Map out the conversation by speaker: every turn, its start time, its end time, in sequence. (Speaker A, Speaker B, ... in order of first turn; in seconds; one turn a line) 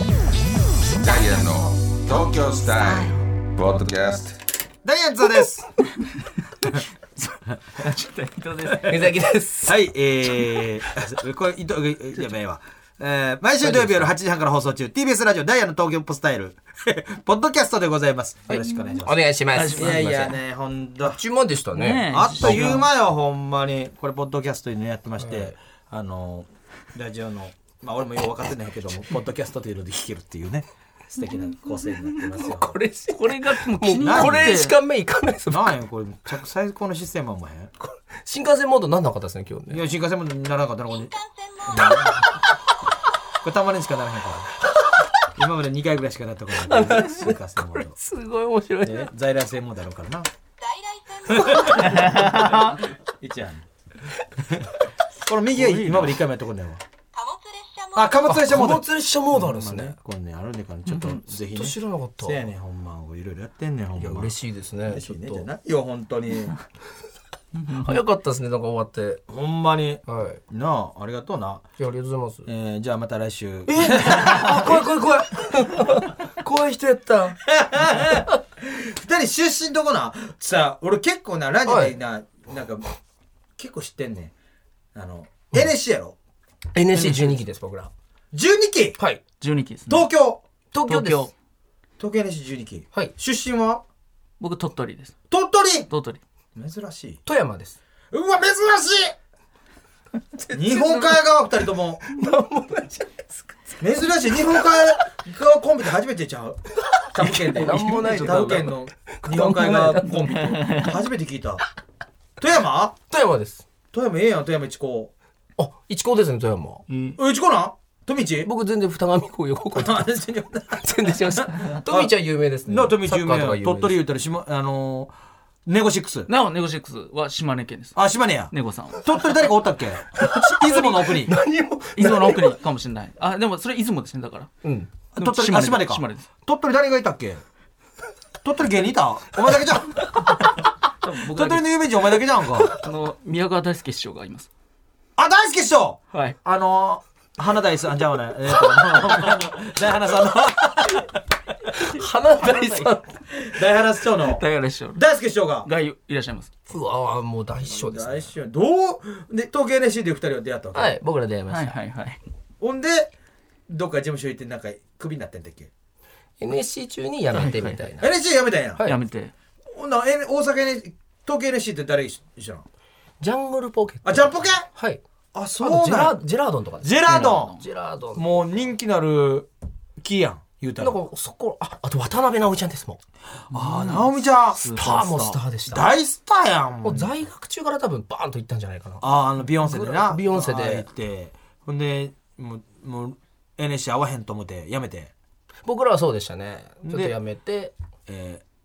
Speaker A: 0.9-4.4
Speaker B: 4.8-5.7
Speaker C: 7.8-9.1
Speaker D: 8.8-9.8
Speaker B: 9.6-19.2
Speaker D: 13.6-14.1
Speaker D: 18.5-20.4
Speaker C: 19.5-20.3
Speaker B: 19.7-21.2
Speaker D: 21.0-22.5
Speaker C: 21.7-22.9
Speaker B: 22.1-32.8
Speaker D: 25.2-25.6
Speaker D: 32.3-35.7
Speaker C: 33.2-34.8
Speaker B: 34.0-34.6
Speaker B: 35.5-37.7
Speaker D: 37.8-39.8
Speaker B: 39.7-42.4
Speaker D: 41.8-42.3
Speaker B: 43.4-44.5
Speaker B: 45.3-48.0
Speaker D: 46.6-49.1
Speaker B: 48.8-50.3
Speaker B: 51.3-53.6
Speaker C: 51.7-52.6
Speaker B: 55.2-56.8
Speaker C: 55.6-56.2
Speaker B: 57.9-64.3
Speaker D: 58.2-60.0
Speaker C: 60.9-61.2
Speaker D: 61.5-62.5
Speaker D: 64.0-65.5
Speaker B: 64.9-66.6
Speaker C: 67.6-68.0
Speaker D: 67.7-69.2
Speaker B: 69.3-71.7
Speaker D: 70.1-70.4
Speaker D: 71.8-72.5
Speaker B: 72.5-74.9
Speaker D: 73.7-77.4
Speaker B: 77.4-82.9
Speaker D: 81.7-82.0
Speaker B: 83.6-84.3
Speaker B: 85.0-86.2
Speaker D: 86.7-87.9
Speaker C: 86.9-87.4
Speaker B: 88.3-89.0
Speaker C: 89.4-90.1
Speaker B: 89.9-90.4
Speaker D: 90.7-91.3
Speaker C: 90.9-91.3
Speaker B: 92.0-93.8
Speaker C: 94.4-95.2
Speaker B: 95.3-95.9
Speaker C: 95.9-96.2
Speaker B: 96.5-97.2
Speaker D: 97.2-97.8
Speaker B: 98.1-99.2
Speaker D: 100.4-101.2
Speaker B: 100.5-102.0
Speaker D: 102.0-103.7
Speaker B: 103.8-111.6
Speaker D: 107.2-110.6
Speaker C: 110.5-110.9
Speaker B: 112.4-113.0
Speaker D: 113.1-113.6
Speaker B: 113.9-115.1
Speaker D: 115.6-116.9
Speaker C: 116.9-117.2
Speaker B: 117.2-118.5
Speaker D: 118.4-120.1
Speaker B: 119.7-122.1
Speaker D: 120.7-124.0
Speaker B: 122.7-125.1
Speaker B: 125.7-126.3
Speaker C: 126.3-129.4
Speaker B: 128.0-131.3
Speaker D: 130.2-132.5
Speaker C: 132.0-134.5
Speaker D: 134.6-134.9
Speaker B: 135.2-137.4
Speaker C: 135.2-136.3
Speaker B: 138.4-140.6
Speaker C: 141.0-141.7
Speaker B: 141.2-142.8
Speaker C: 142.7-144.5
Speaker B: 145.2-151.2
Speaker D: 151.7-153.2
Speaker B: 152.4-155.7
Speaker C: 154.2-155.0
Speaker C: 155.6-156.5
Speaker D: 156.7-158.3
Speaker B: 157.7-161.0
Speaker D: 160.7-161.8
Speaker C: 161.5-162.2
Speaker B: 162.6-163.1
Speaker B: 163.7-165.7
Speaker D: 166.4-168.1
Speaker C: 167.3-167.8
Speaker B: 168.0-168.9
Speaker C: 168.8-169.3
Speaker B: 169.7-172.7
Speaker D: 173.2-175.0
Speaker B: 174.0-174.7
Speaker B: 175.3-176.2
Speaker D: 175.6-178.5
Speaker B: 176.8-177.6
Speaker C: 177.1-177.6
Speaker B: 178.1-181.0
Speaker D: 180.8-183.0
Speaker B: 183.5-184.7
Speaker C: 183.5-185.4
Speaker D: 184.6-185.9
Speaker B: 185.7-187.1
Speaker D: 186.8-190.9
Speaker B: 189.0-195.1
Speaker D: 195.7-197.7
Speaker B: 196.8-197.2
Speaker B: 198.1-198.4